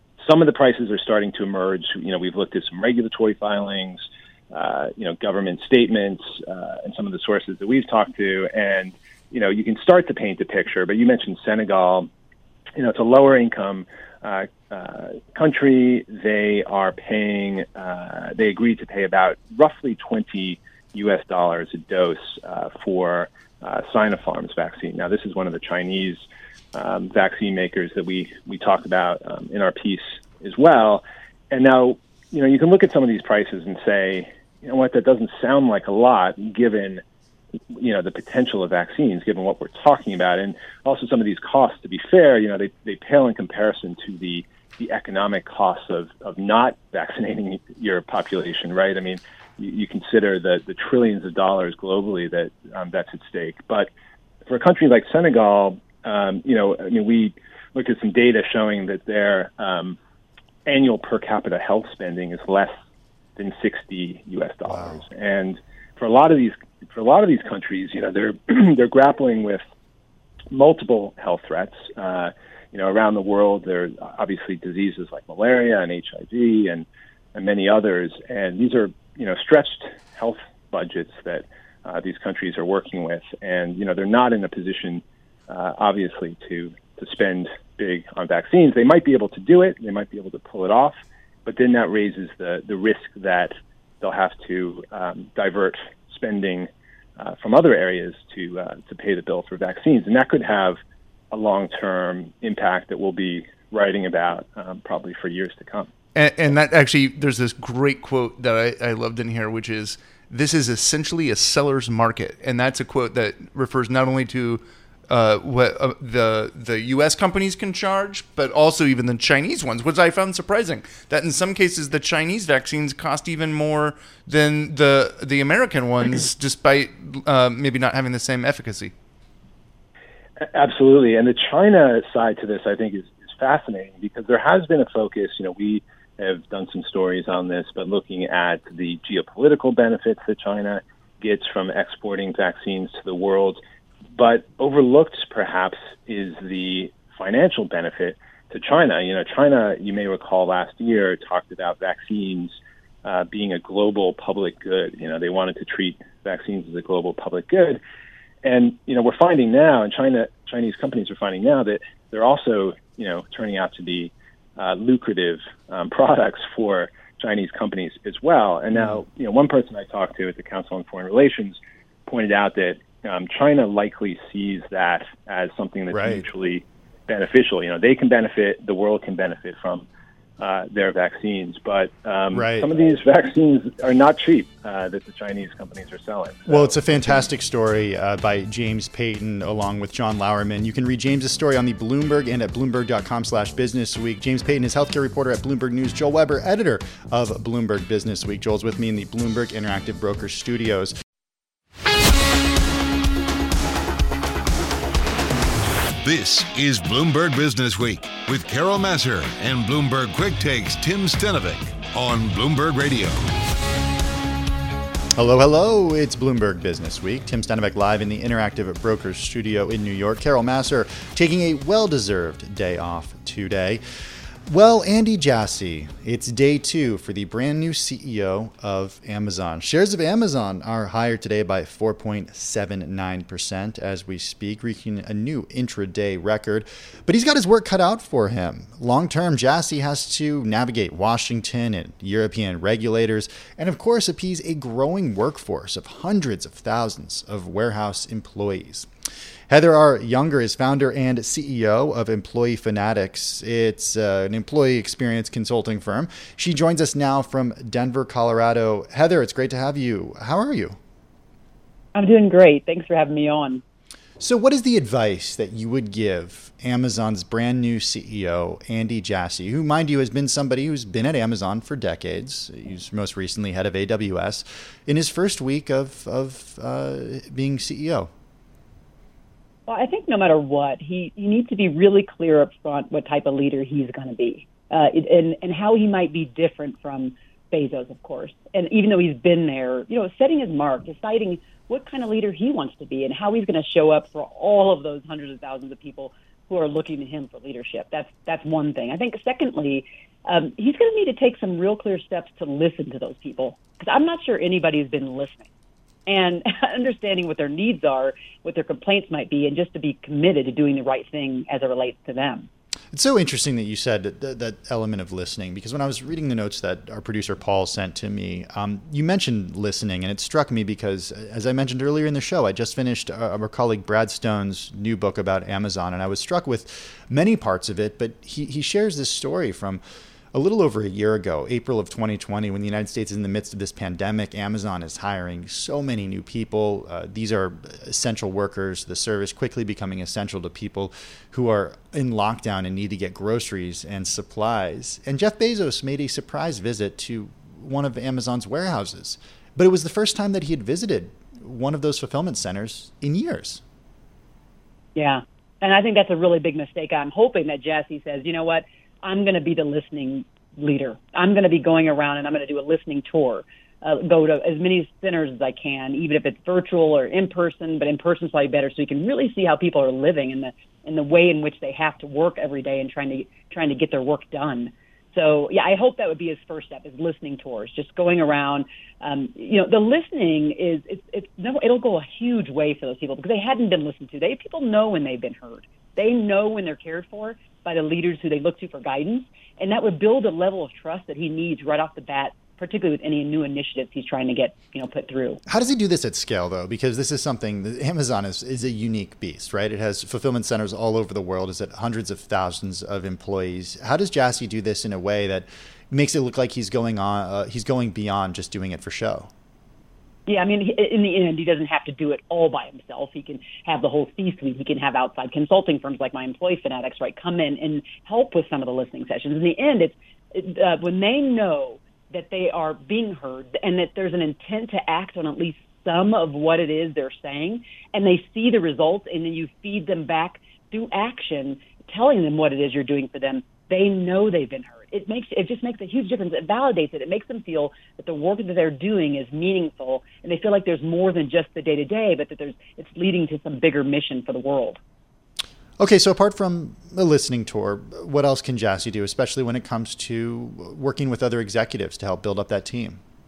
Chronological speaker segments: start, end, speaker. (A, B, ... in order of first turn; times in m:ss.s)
0:00.2-0:12.1 A
0:12.8-0:37.0 A
0:37.7-0:53.9 A
0:54.4-1:00.0 A
1:00.6-1:02.7 A
1:03.4-1:09.6 A
1:04.6-1:05.0 B
1:10.5-1:40.8 A
1:41.3-1:45.9 A
1:46.1-2:08.9 C
2:10.4-2:23.6 A
2:24.2-2:37.8 A
2:38.4-2:59.9 A
2:48.7-2:49.0 B
2:55.9-2:56.2 B
3:00.4-3:07.2 A
3:02.3-3:02.7 B
3:06.5-3:20.9 B
3:26.0-3:33.3 D
3:35.1-3:43.8 B
3:44.5-4:08.9 B
4:09.5-4:20.8 B
4:21.9-4:23.6 E
4:24.2-4:38.1 B
4:39.7-5:05.5 E
5:06.1-5:12.5 E
5:12.9-5:29.8 B
5:30.3-5:53.6 B
5:54.9-6:35.4 E
6:35.5-6:49.3 B
6:50.3-7:24.8 E
7:25.8-7:33.0 B